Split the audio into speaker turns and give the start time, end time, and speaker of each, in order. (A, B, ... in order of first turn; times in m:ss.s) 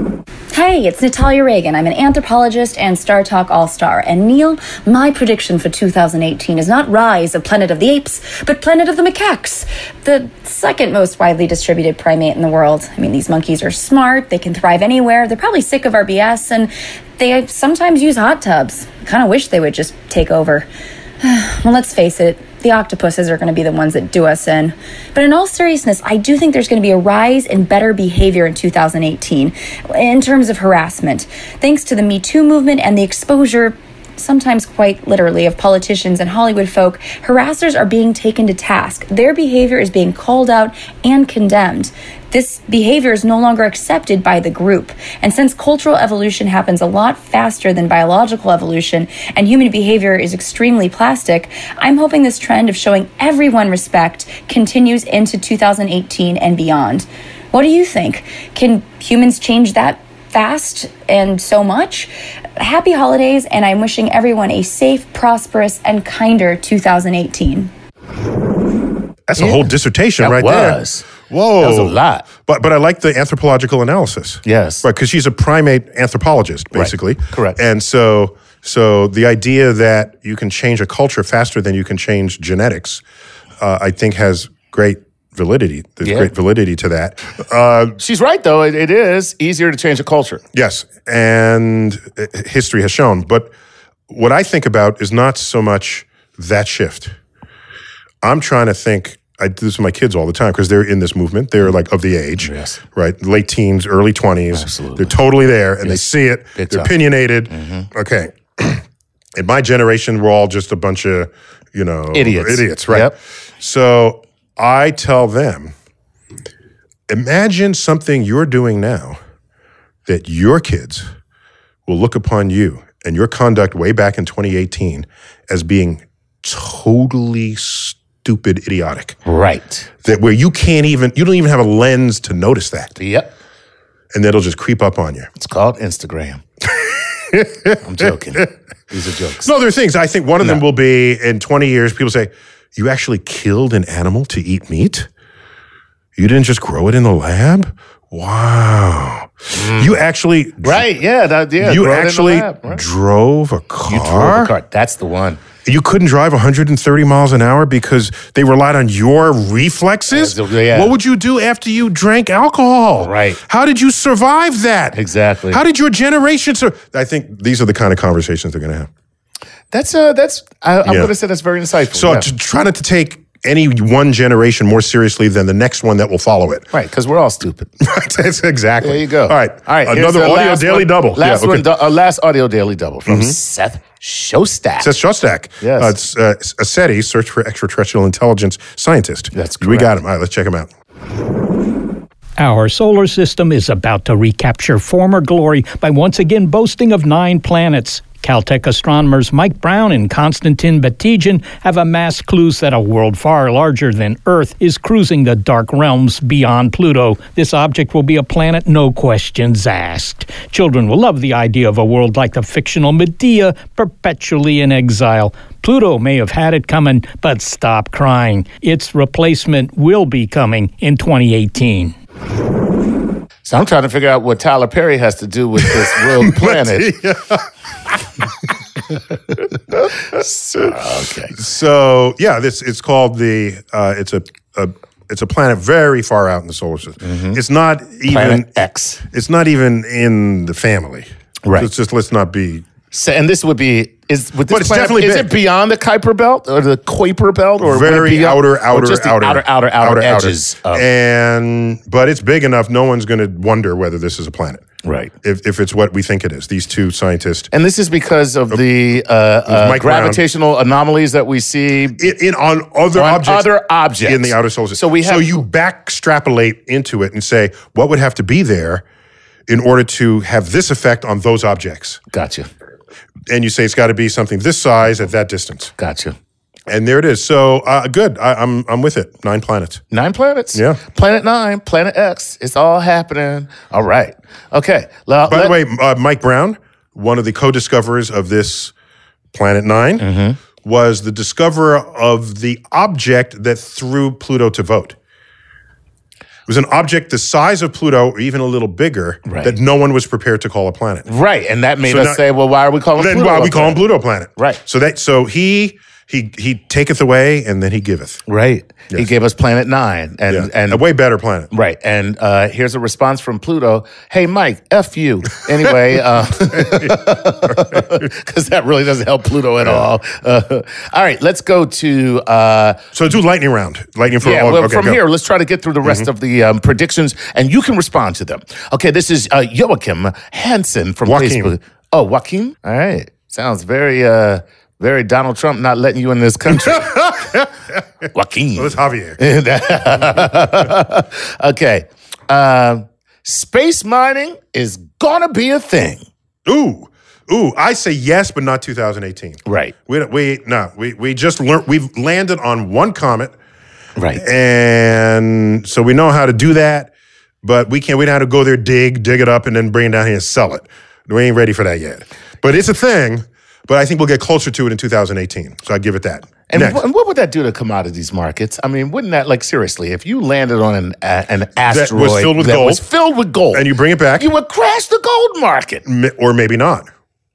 0:00.5-0:20.7 A
0:21.2-1:07.7 A
1:09.3-1:23.0 B
1:09.4-1:09.7 C
1:10.2-1:11.1 C
1:11.6-1:12.3 C
1:14.4-1:14.8 C
1:16.7-1:17.6 C
1:23.6-1:28.0 B
1:26.0-1:26.3 C
1:28.0-1:30.4 C
1:30.5-1:33.5 B
1:34.1-1:37.2 B
1:38.2-1:48.8 B
1:42.4-1:42.8 C
1:44.5-1:45.1 C
1:45.8-1:46.9 C
1:47.5-1:47.9 C
1:49.3-1:55.7 B
1:52.1-1:53.2 C
1:57.1-1:59.2 B
2:00.1-2:01.1 B
2:01.9-2:09.2 B
2:09.2-2:09.9 C
2:10.0-2:13.0 B
2:13.0-2:13.3 C
2:14.1-2:15.3 B
2:15.4-2:16.4 C
2:16.7-2:18.5 B
2:17.8-2:19.5 C
2:19.4-2:25.1 B
2:26.2-2:30.9 B
2:29.5-2:30.0 C
2:30.6-2:32.8 C
2:31.6-2:34.5 B
2:33.9-2:35.4 C
2:35.6-2:48.9 B
2:40.1-2:41.0 C
2:43.0-2:43.4 C
2:44.9-2:45.6 C
2:49.7-2:52.3 C
2:50.8-2:51.1 B
2:51.9-2:56.7 B
2:56.7-2:57.7 C
2:57.8-3:01.7 B
2:58.8-3:05.0 C
3:03.1-3:03.4 B
3:04.8-3:10.7 B
3:05.6-3:06.0 C
3:09.3-3:09.9 C
3:12.4-3:42.0 D
3:43.5-3:46.9 C
3:45.6-3:48.0 B
3:49.7-3:51.4 C
3:51.3-4:02.7 B
3:57.0-3:57.4 C
3:58.1-3:59.0 C
4:02.9-4:10.9 C
4:04.5-4:05.4 B
4:07.6-4:14.7 B
4:14.8-4:15.1 C
4:15.2-4:17.5 B
4:17.5-4:22.1 C
4:19.5-4:20.2 B
4:22.0-4:23.5 B
4:22.9-4:25.4 C
4:24.0-4:28.8 B
4:29.5-4:32.0 B
4:32.1-4:32.5 C
4:33.3-4:35.7 B
4:35.8-4:36.2 C
4:36.7-4:39.8 B
4:39.9-4:45.6 C
4:40.5-4:40.8 B
4:45.3-4:48.7 B
4:49.3-4:50.0 B
4:50.0-4:50.4 C
4:50.6-4:55.0 B
4:56.5-5:01.1 B
4:59.3-4:59.6 C
5:01.1-5:03.8 C
5:01.8-5:02.2 B
5:03.0-5:08.2 B
5:08.3-5:10.8 C
5:10.3-5:11.5 B
5:11.5-5:22.9 C
5:16.5-5:18.1 B
5:19.6-5:19.9 B
5:22.9-5:25.0 B
5:24.2-5:37.1 C
5:25.8-5:26.1 B
5:31.0-5:31.5 B
5:36.5-5:37.8 B
5:38.1-5:46.0 C
5:38.6-5:39.2 B
5:46.5-5:53.3 B
5:49.5-5:49.7 C
5:54.0-5:54.2 C
5:54.2-5:56.9 B
5:57.4-6:06.8 B
6:06.5-6:15.8 C
6:11.7-6:12.8 B
6:13.5-6:14.3 B
6:15.8-6:16.9 B